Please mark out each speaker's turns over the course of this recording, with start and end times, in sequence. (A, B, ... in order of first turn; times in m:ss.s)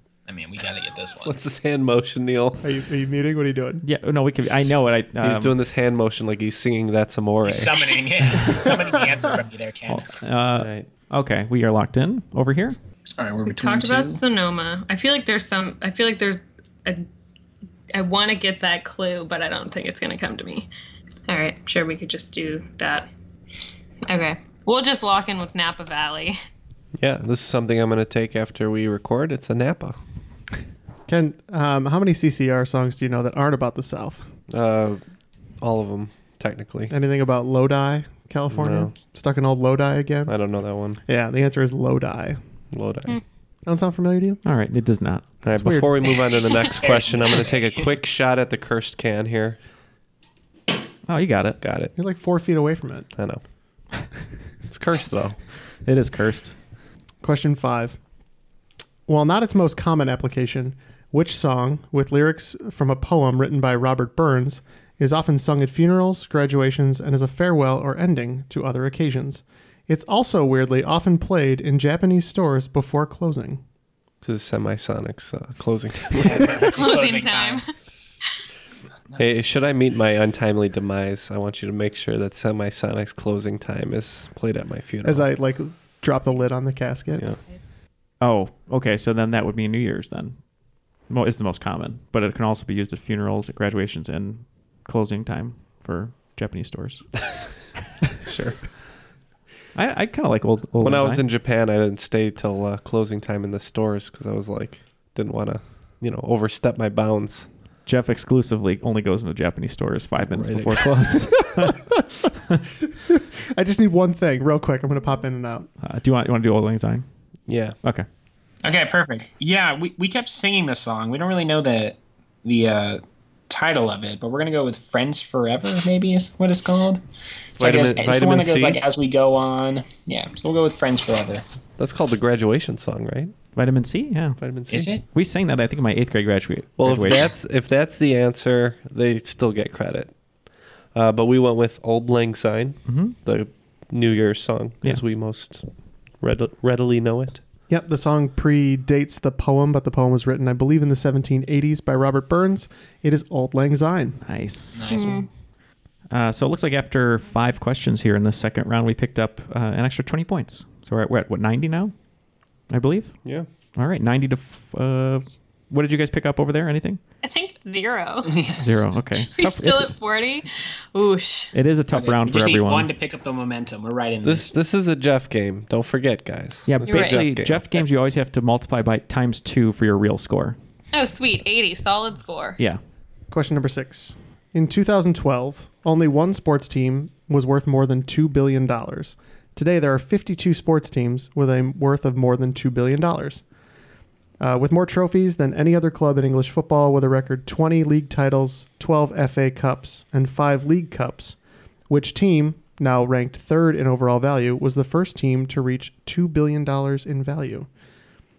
0:00.3-0:01.4 A
0:01.2-0:02.6 B
0:02.6-0:03.8 C
0:03.8-0:05.6 D
0:05.2-0:07.8 B
0:07.4-0:10.0 A
0:09.9-0:12.8 D
0:10.6-0:10.9 B
0:13.2-0:14.2 A
0:13.4-0:17.1 E
0:17.9-0:20.7 E
0:21.3-0:23.1 E
0:24.0-0:26.4 E
0:27.0-0:30.0 B
0:31.1-0:34.3 C
0:34.5-0:35.0 B
0:35.6-0:36.9 B
0:36.9-0:40.4 C
0:38.5-0:38.9 B
0:40.3-0:41.0 B
0:41.0-0:42.4 C
0:42.7-0:43.2 B
0:43.6-0:44.4 C
0:44.4-0:45.4 D
0:45.4-0:49.6 B
0:45.6-0:45.9 C
0:46.8-0:47.9 A
0:51.1-0:51.6 D
0:51.6-0:51.9 B
0:52.0-0:53.1 C
0:53.1-0:53.4 B
0:54.7-0:55.4 B
0:55.8-0:56.6 D
0:57.2-0:58.0 C
0:59.1-1:13.6 C
1:14.2-1:16.7 B
1:16.2-1:17.6 A
1:16.7-1:17.7 E
1:19.2-1:25.3 B
1:25.0-1:27.3 C
1:28.2-1:30.4 D
1:31.1-1:37.1 D
1:38.2-1:38.6 B
1:39.7-1:41.2 D
1:40.8-1:47.5 B
1:47.8-1:51.8 D
1:50.3-1:51.0 B
1:53.1-1:55.7 C
1:55.8-1:57.0 D
1:57.5-1:57.8 B
1:58.6-2:07.0 A
2:07.6-2:08.8 B
2:07.6-2:11.4 A
2:11.8-2:13.3 B
2:13.5-2:17.3 D
2:14.4-2:14.9 B
2:14.7-2:15.0 A
2:16.8-2:20.1 B
2:20.9-2:25.6 B
2:22.9-2:23.2 D
2:26.2-2:27.4 B
2:27.7-2:34.2 C
2:34.2-2:34.9 D
2:34.8-2:35.2 A
2:34.9-2:35.3 E
2:36.1-2:41.9 D
2:42.7-2:43.1 D
2:43.8-2:47.0 D
2:47.2-2:48.5 E
2:48.2-2:48.6 A
2:48.6-2:49.9 D
2:49.3-2:51.5 E
2:51.5-2:52.9 D
2:51.9-2:54.5 A
2:54.2-2:57.6 B
2:56.6-3:00.6 D
2:56.8-2:57.2 E
3:00.9-3:02.6 E
3:03.3-3:13.4 C
3:14.4-3:21.4 C
3:21.9-3:27.7 C